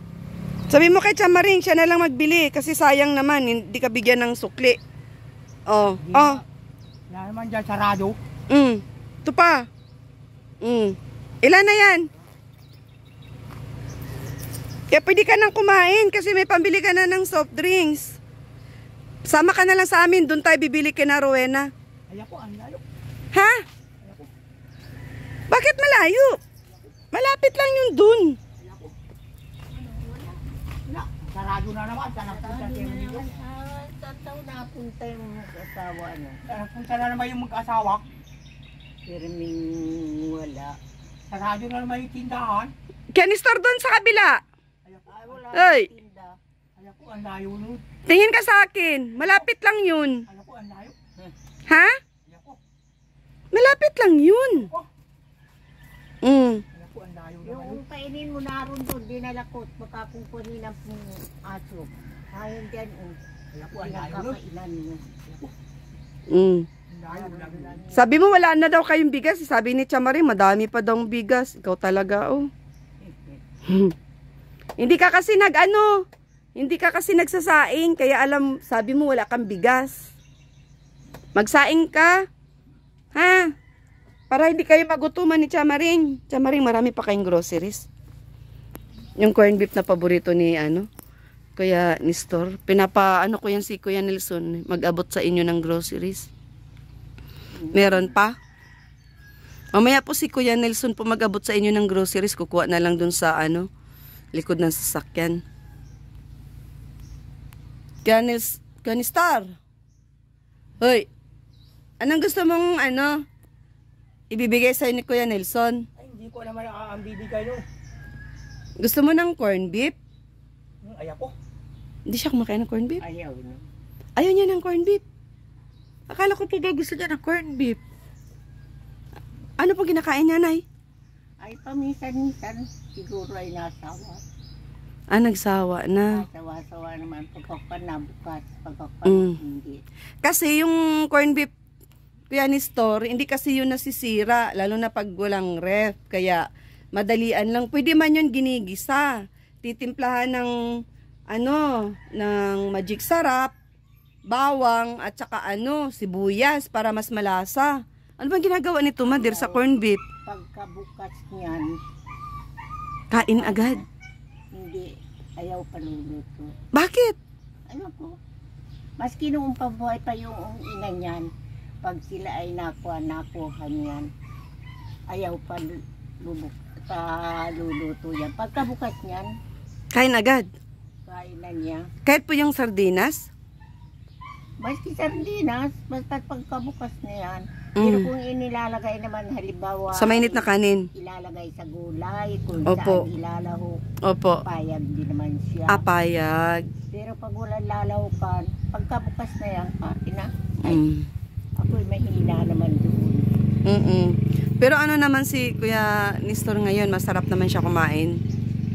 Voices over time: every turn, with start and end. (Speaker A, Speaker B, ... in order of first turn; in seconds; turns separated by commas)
Speaker A: 0.7-4.8, Speaker A: 5.7-6.4, Speaker B: 6.0-6.4, Speaker B: 7.1-8.2, Speaker A: 8.5-9.7, Speaker A: 10.6-12.0, Speaker A: 14.9-18.2, Speaker A: 19.2-21.7, Speaker B: 22.1-22.8, Speaker A: 23.3-23.6, Speaker B: 24.0-24.3, Speaker A: 25.5-26.4, Speaker A: 27.1-28.4, Speaker B: 28.6-28.9, Speaker C: 29.8-30.3, Speaker B: 30.9-33.3, Speaker C: 32.3-36.4, Speaker B: 36.5-38.0, Speaker C: 39.0-40.8, Speaker B: 41.3-42.7, Speaker A: 43.1-44.4, Speaker B: 44.8-45.5, Speaker C: 45.1-46.4, Speaker A: 45.5-45.9, Speaker B: 46.8-47.8, Speaker A: 48.1-50.2, Speaker B: 49.2-49.5, Speaker B: 50.2-51.0, Speaker A: 51.7-52.0, Speaker B: 52.2-52.6, Speaker A: 53.5-54.7, Speaker B: 54.5-54.9, Speaker A: 56.2-56.6, Speaker B: 56.7-57.8, Speaker C: 57.4-63.2, Speaker B: 63.5-64.4, Speaker C: 63.7-65.0, Speaker B: 65.2-65.5, Speaker A: 66.3-66.7, Speaker B: 66.9-67.8, Speaker C: 67.1-68.1, Speaker A: 67.9-72.5, Speaker C: 73.0-73.4, Speaker A: 73.7-73.9, Speaker A: 74.8-76.0, Speaker A: 76.5-80.1, Speaker A: 81.3-82.2, Speaker A: 83.1-83.5, Speaker A: 84.3-87.8, Speaker A: 89.2-90.9, Speaker A: 91.6-96.3, Speaker C: 97.5-98.1, Speaker A: 97.7-98.3, Speaker A: 99.7-103.7, Speaker A: 104.3-105.4, Speaker A: 108.0-109.5, Speaker A: 110.8-111.1, Speaker A: 112.0-113.2, Speaker A: 114.3-115.8, Speaker B: 116.0-117.6, Speaker A: 118.8-119.9, Speaker B: 120.8-121.3, Speaker A: 122.1-123.0, Speaker C: 123.0-123.6, Speaker A: 124.2-125.0, Speaker A: 126.1-127.8, Speaker A: 129.6-130.6, Speaker C: 131.4-134.2, Speaker A: 135.1-136.2, Speaker C: 136.1-139.8, Speaker A: 139.1-139.3, Speaker A: 140.2-141.5, Speaker A: 142.3-150.5, Speaker A: 151.3-153.5, Speaker A: 154.2-160.0, Speaker C: 159.0-159.6, Speaker C: 160.2-161.8, Speaker A: 163.1-163.8, Speaker C: 163.1-163.8, Speaker C: 164.5-166.5, Speaker A: 166.7-167.2, Speaker C: 167.7-168.2, Speaker C: 169.0-171.3, Speaker C: 171.8-174.1, Speaker C: 175.1-179.3, Speaker A: 179.9-180.5, Speaker C: 181.1-181.9, Speaker A: 182.0-183.3, Speaker C: 184.6-193.8, Speaker A: 187.8-188.1, Speaker A: 189.9-190.9, Speaker A: 192.7-193.1, Speaker A: 194.0-194.4, Speaker C: 194.4-195.8, Speaker A: 195.7-196.7, Speaker C: 196.9-200.8, Speaker A: 200.6-201.1, Speaker C: 201.6-203.2, Speaker A: 203.6-208.2